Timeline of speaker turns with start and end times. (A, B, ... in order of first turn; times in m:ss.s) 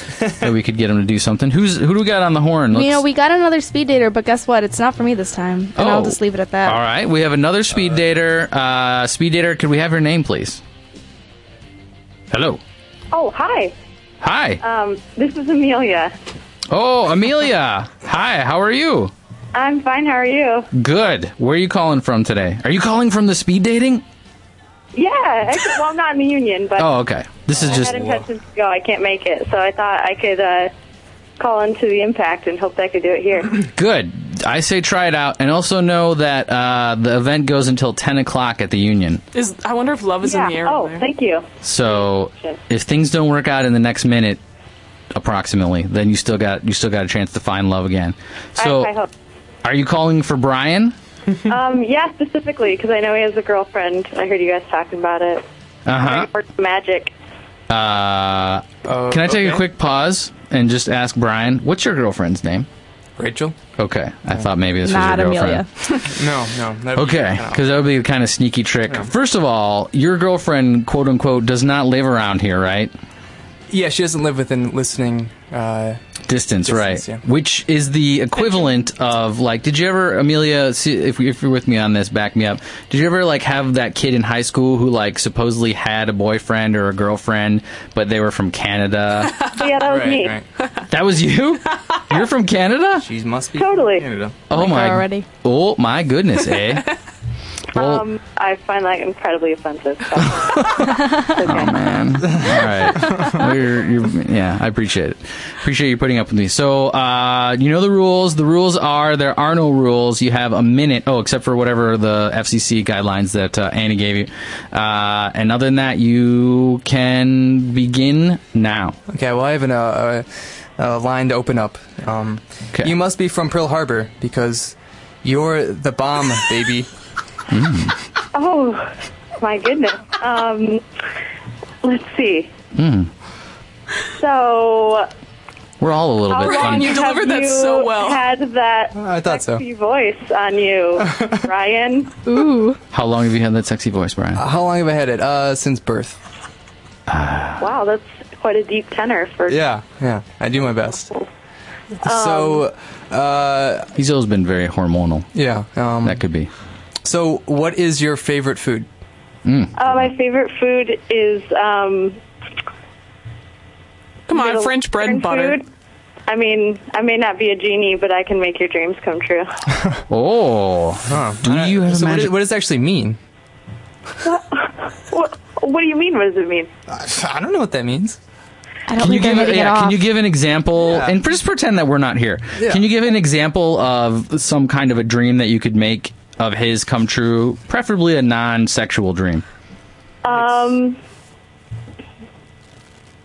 0:00.3-0:03.0 A
0:02.7-0:06.8 B
0:05.8-0:10.6 A
0:12.3-0:12.6 A
0:13.1-0:13.7 C
0:14.2-0:14.6 A
0:14.6-0:16.1 C
0:16.7-0:19.1 A
0:19.5-0:20.7 C
0:20.7-0:24.0 A
0:25.0-0:26.9 C
0:26.8-0:28.0 A
0:27.5-0:30.7 C
0:27.6-0:28.2 D
0:31.4-0:33.7 C
0:33.8-0:39.2 A
0:39.3-0:41.0 E
0:40.2-0:42.6 C
0:41.6-0:44.4 A
0:45.1-0:48.9 A
0:48.6-0:49.1 C
0:49.6-0:51.0 A
0:51.4-0:57.1 C
0:55.9-0:56.3 A
0:57.7-1:02.7 A
0:58.8-0:59.6 D
1:03.2-1:03.6 D
1:03.8-1:05.6 A
1:04.8-1:06.0 B
1:06.1-1:07.7 D
1:07.0-1:12.9 A
1:13.7-1:16.0 D
1:16.3-1:29.4 A
1:16.6-1:17.2 D
1:29.5-1:30.4 C
1:29.8-1:30.4 D
1:30.9-1:33.1 A
1:33.0-1:34.4 D
1:33.5-1:34.1 C
1:34.5-1:36.9 A
1:34.5-1:35.3 B
1:37.7-1:41.8 C
1:37.8-1:38.0 A
1:41.4-1:59.0 A
1:42.2-1:43.3 D
1:59.1-2:06.9 D
2:07.5-2:08.0 A
2:08.3-2:10.8 C
2:11.8-2:12.5 C
2:12.8-2:13.1 A
2:14.2-2:15.1 C
2:15.8-2:17.0 A
2:16.3-2:22.2 C
2:16.4-2:18.2 E
2:19.0-2:19.6 D
2:21.1-2:21.4 D
2:22.3-2:22.8 B
2:22.9-2:24.4 A
2:24.4-2:26.2 D
2:27.1-2:27.6 A
2:27.6-2:29.7 C
2:29.5-2:31.1 D
2:32.0-2:32.7 C
2:32.0-2:33.9 D
2:34.0-2:35.3 A
2:35.4-2:36.2 D
2:36.0-2:36.5 A
2:37.0-2:38.9 D
2:39.4-2:40.1 A
2:39.8-2:42.2 C
2:44.3-2:45.6 E
2:44.3-2:45.7 C
2:46.3-2:49.6 C
2:50.1-2:52.4 A
2:51.0-2:53.2 D
2:54.2-2:56.7 C
2:56.9-2:58.2 D
2:58.9-3:00.0 B
2:59.0-3:09.4 A
3:00.8-3:01.2 D
3:02.6-3:02.9 D
3:10.2-3:11.0 C
3:10.3-3:10.6 D